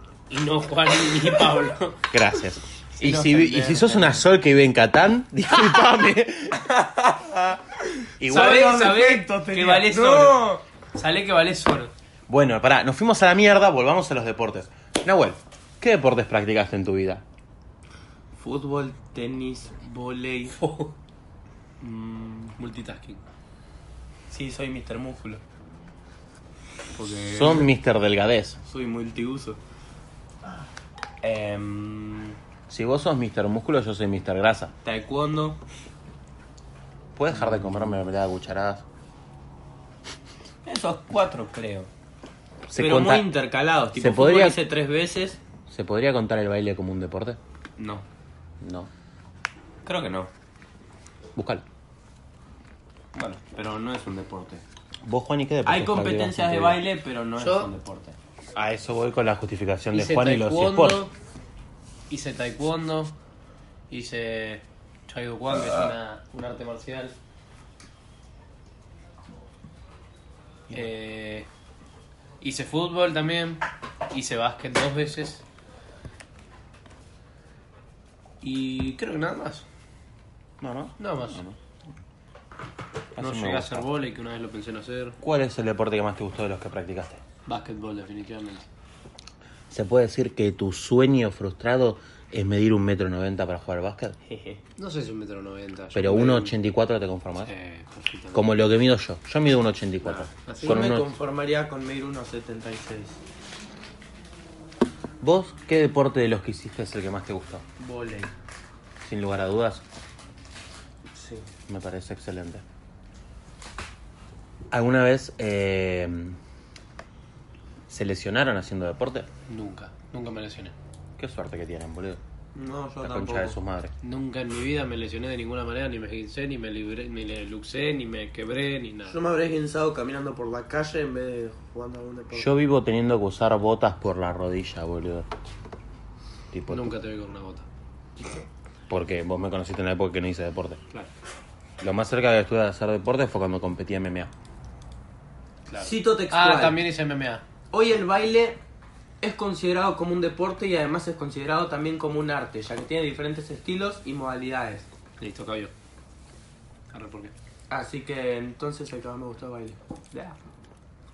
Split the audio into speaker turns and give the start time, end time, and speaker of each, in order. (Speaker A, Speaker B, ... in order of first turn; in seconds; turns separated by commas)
Speaker A: 0.3-2.0, Speaker B: 2.1-6.7, Speaker C: 3.0-4.2, Speaker C: 6.6-7.6, Speaker B: 8.2-8.7, Speaker C: 8.3-10.6, Speaker A: 8.3-11.9, Speaker B: 12.3-17.2, Speaker C: 18.4-20.6, Speaker A: 20.6-20.9, Speaker C: 21.8-22.6, Speaker A: 22.6-23.2, Speaker C: 24.3-25.4, Speaker C: 26.9-27.7, Speaker B: 27.3-28.6, Speaker C: 28.6-29.6, Speaker C: 31.2-32.4, Speaker B: 32.7-34.7, Speaker C: 34.8-35.6, Speaker B: 37.2-38.8, Speaker C: 40.7-41.9, Speaker B: 42.7-43.4, Speaker C: 42.8-45.4, Speaker B: 44.0-44.6, Speaker B: 45.7-47.4, Speaker C: 47.8-48.0, Speaker B: 48.6-48.9, Speaker C: 49.9-50.3, Speaker B: 51.4-51.6, Speaker C: 53.1-54.6, Speaker B: 55.0-56.8, Speaker C: 55.6-58.2, Speaker A: 57.4-57.7, Speaker B: 58.6-61.0, Speaker A: 59.9-61.1, Speaker A: 62.1-63.1, Speaker A: 63.9-67.2, Speaker A: 70.7-71.5, Speaker A: 72.4-75.4, Speaker A: 78.4-79.7, Speaker B: 80.6-81.6, Speaker A: 81.0-81.4, Speaker B: 83.2-83.8, Speaker A: 83.2-85.2, Speaker B: 85.2-87.2, Speaker A: 87.5-88.7, Speaker B: 89.7-94.2, Speaker C: 94.3-94.6, Speaker A: 94.8-96.5, Speaker B: 95.9-97.5, Speaker A: 97.4-98.5, Speaker B: 98.3-101.1, Speaker A: 100.0-100.9, Speaker C: 100.6-103.2, Speaker B: 105.2-107.6, Speaker C: 107.8-108.3, Speaker B: 109.0-109.8, Speaker C: 111.1-111.5, Speaker B: 111.7-112.6, Speaker B: 114.7-116.4, Speaker B: 117.9-119.3, Speaker A: 119.5-120.7, Speaker B: 121.2-122.2, Speaker C: 122.5-123.6, Speaker B: 123.0-123.9, Speaker A: 124.0-129.2, Speaker C: 129.1-132.5, Speaker B: 132.3-135.3, Speaker B: 136.5-136.9, Speaker A: 136.7-137.7, Speaker B: 138.9-140.8, Speaker B: 141.8-144.3, Speaker A: 145.7-147.4, Speaker C: 145.8-146.8, Speaker C: 147.7-148.6, Speaker C: 149.2-154.9, Speaker A: 155.2-155.7, Speaker A: 156.9-157.3, Speaker C: 157.7-160.4